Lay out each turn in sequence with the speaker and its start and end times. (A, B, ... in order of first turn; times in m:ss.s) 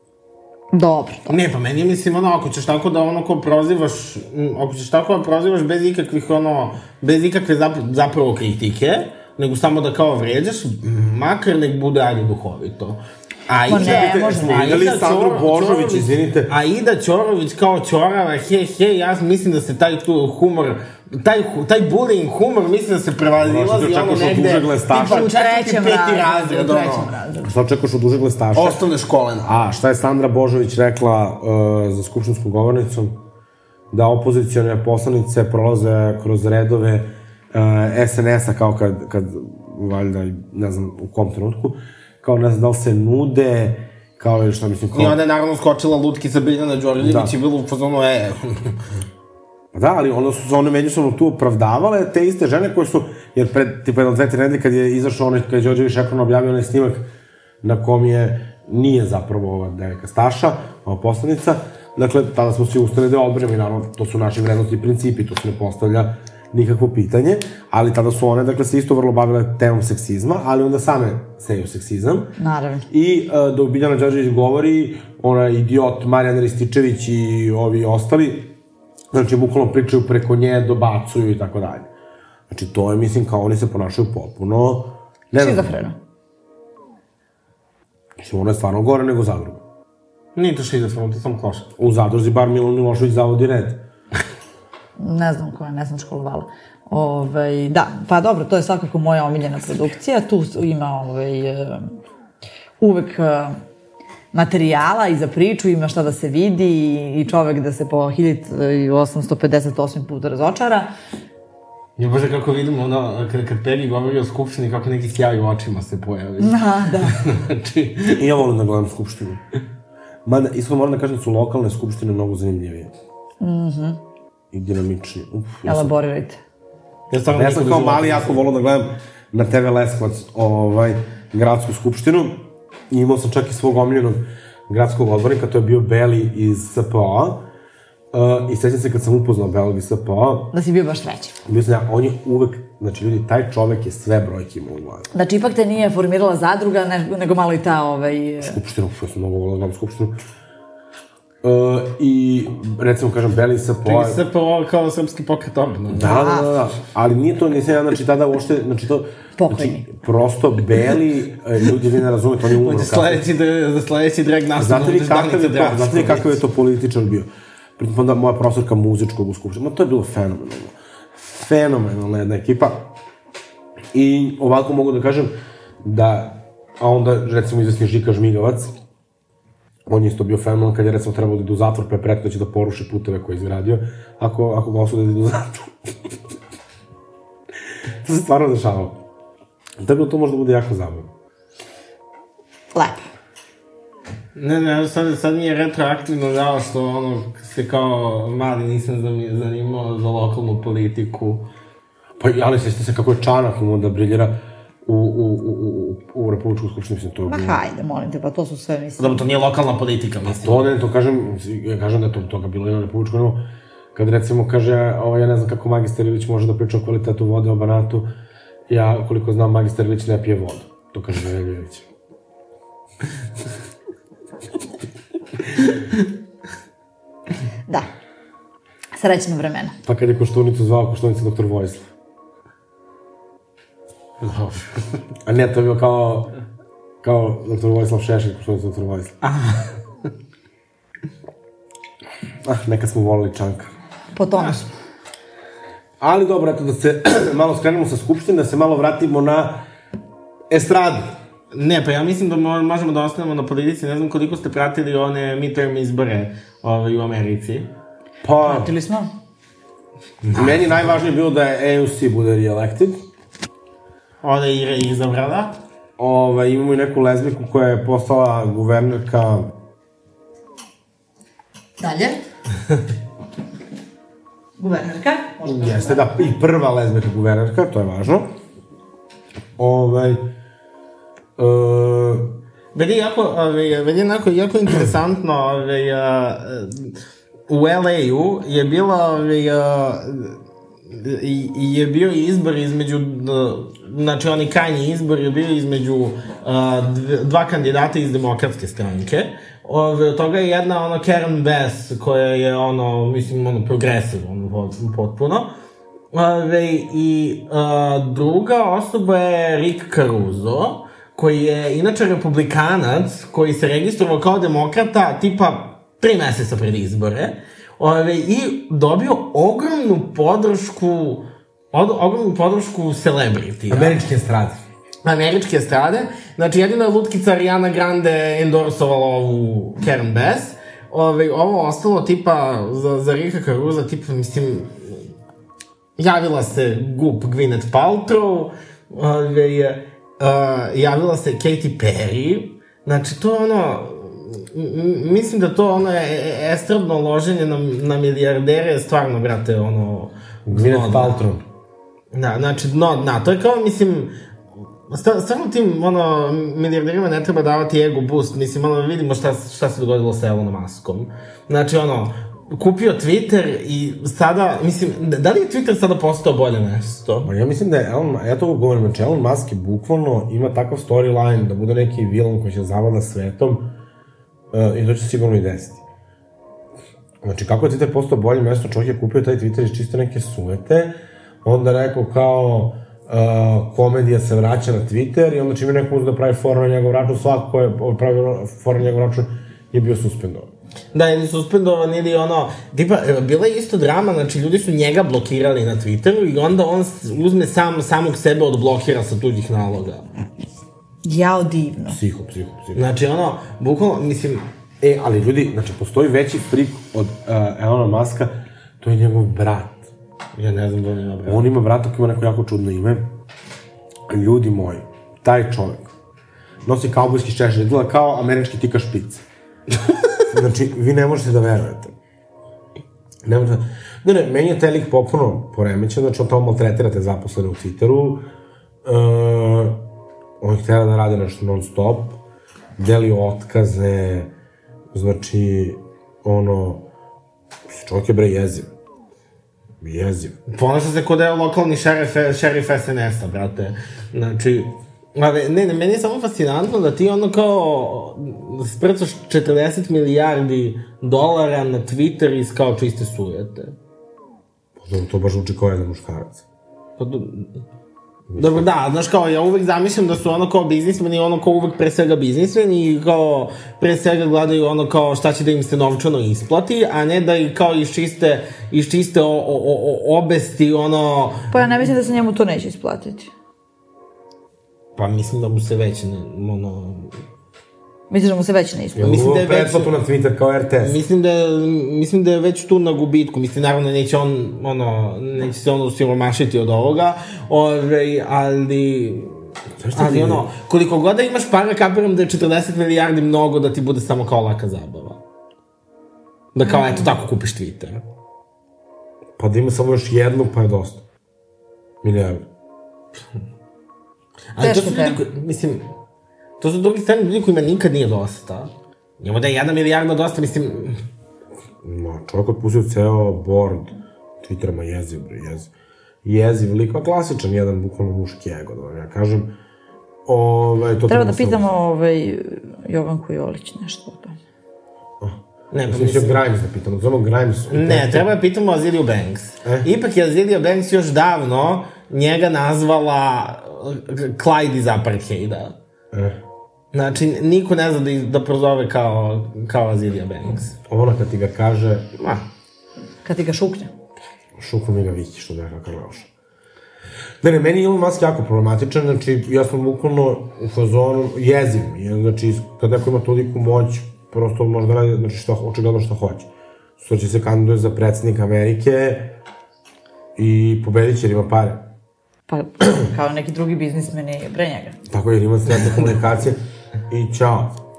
0:00.7-0:01.3 A
0:01.3-0:27.1 B
0:13.7-0:14.8 A
0:13.7-0:16.5 C
0:23.4-0:25.3 C
0:25.0-0:27.5 A
0:27.4-0:28.8 C
0:28.6-0:29.6 B
0:29.4-0:33.2 C
0:33.9-0:45.2 C
0:44.9-0:48.8 B
0:47.0-0:47.3 C
0:49.7-0:57.1 C
0:57.6-1:12.3 C
1:12.4-1:12.9 A
1:12.9-1:18.5 C
1:19.1-1:21.9 C
1:22.5-1:25.8 C
1:25.4-1:26.0 A
1:28.2-1:29.6 C
1:30.4-1:31.7 B
1:31.8-1:33.8 C
1:35.0-1:41.9 A
1:42.8-1:43.6 A
1:44.3-1:50.9 A
1:52.0-1:58.2 B
1:56.4-1:57.2 A
1:58.1-1:59.4 C
2:00.3-2:02.9 C
2:03.4-2:04.0 A
2:04.5-2:05.9 C
2:05.6-2:06.4 A
2:07.1-2:08.4 B
2:07.3-2:17.4 C
2:18.1-2:20.5 C
2:20.5-2:21.4 A
2:21.4-2:25.1 C
2:25.1-2:28.6 A
2:28.4-2:30.2 C
2:31.4-2:34.2 C
2:33.8-2:36.1 B
2:35.9-2:43.2 C
2:36.0-2:36.5 A
2:39.4-2:39.9 A
2:42.5-2:46.4 B
2:44.6-2:52.9 C
2:53.9-2:58.8 C
2:59.9-3:05.7 C
3:08.0-3:09.0 C
3:09.8-3:11.1 C
3:12.7-3:13.1 A
3:14.4-3:21.5 B
3:22.2-3:27.6 C
3:27.3-3:29.2 A
3:29.0-3:30.6 B
3:30.3-3:33.4 C
3:33.9-3:38.1 C
3:38.7-3:41.8 C
3:48.9-3:49.8 A
3:49.8-3:51.9 C
3:54.2-3:54.8 B
3:55.3-3:56.3 C
3:57.0-3:59.1 C
3:59.2-3:59.7 B
4:02.4-4:03.7 C
4:04.1-4:04.6 A
4:04.4-4:04.6 B
4:06.0-4:09.6 C
4:10.5-4:11.1 C
4:11.5-4:17.7 B
4:18.2-4:18.7 C
4:18.4-4:19.1 A
4:20.2-4:20.6 B
4:20.3-4:23.0 C
4:24.2-4:25.6 B
4:26.0-4:29.5 C
4:31.8-4:32.2 A
4:34.6-4:36.1 A
4:35.4-4:38.3 C
4:39.6-4:40.3 C
4:41.4-4:42.4 C
4:42.7-4:47.0 B
4:47.5-4:50.4 B
4:50.9-5:05.5 B
5:06.1-5:24.0 B
5:23.7-5:24.6 C
5:25.0-5:35.0 B
5:36.0-5:51.2 B
5:50.5-5:51.4 C
5:52.1-5:54.1 B
5:54.9-6:07.3 B
6:07.2-6:13.7 C
6:14.5-6:15.8 C
6:17.2-6:30.5 C
6:30.9-6:40.0 B
6:41.0-6:42.0 A
6:41.9-6:42.9 C
6:42.8-6:44.4 B
6:44.8-6:49.9 C
6:50.4-6:51.4 B
6:51.2-6:53.1 C
6:54.1-6:55.9 C
6:56.6-6:59.2 C
7:00.3-7:01.9 C
7:03.2-7:08.2 C
7:08.8-7:09.8 C
7:10.4-7:12.2 C
7:12.8-7:14.3 C
7:14.9-7:16.8 C
7:17.7-7:18.7 C
7:19.8-7:20.4 C
7:20.5-7:33.8 B
7:34.8-7:36.4 C
7:37.0-7:37.5 B
7:38.3-7:38.6 C
7:38.4-7:52.0 B
7:51.5-7:53.3 A
7:55.0-7:57.2 B
7:58.1-7:59.1 A
7:59.0-8:01.0 C
7:59.0-8:00.0 B
8:00.8-8:09.4 B
8:09.8-8:10.4 C
8:09.9-8:15.2 B
8:16.5-8:18.0 B
8:16.6-8:17.2 A
8:19.4-8:21.0 C
8:22.0-8:22.5 C
8:24.6-8:25.9 B
8:24.6-8:25.2 A
8:26.6-8:31.0 B
8:31.8-8:35.7 C
8:36.2-8:39.5 C
8:40.2-8:41.7 C
8:41.1-8:44.4 A
8:45.2-8:48.2 C
8:45.7-8:46.5 B
8:47.7-8:55.8 B
8:56.1-8:56.4 C
8:56.9-9:00.8 B
9:00.8-9:02.1 C
9:02.2-9:02.4 B
9:03.2-9:03.9 A
9:04.6-9:06.3 C
9:07.4-9:19.4 C
9:20.4-9:21.9 C
9:22.5-9:25.0 A
9:25.1-9:27.8 C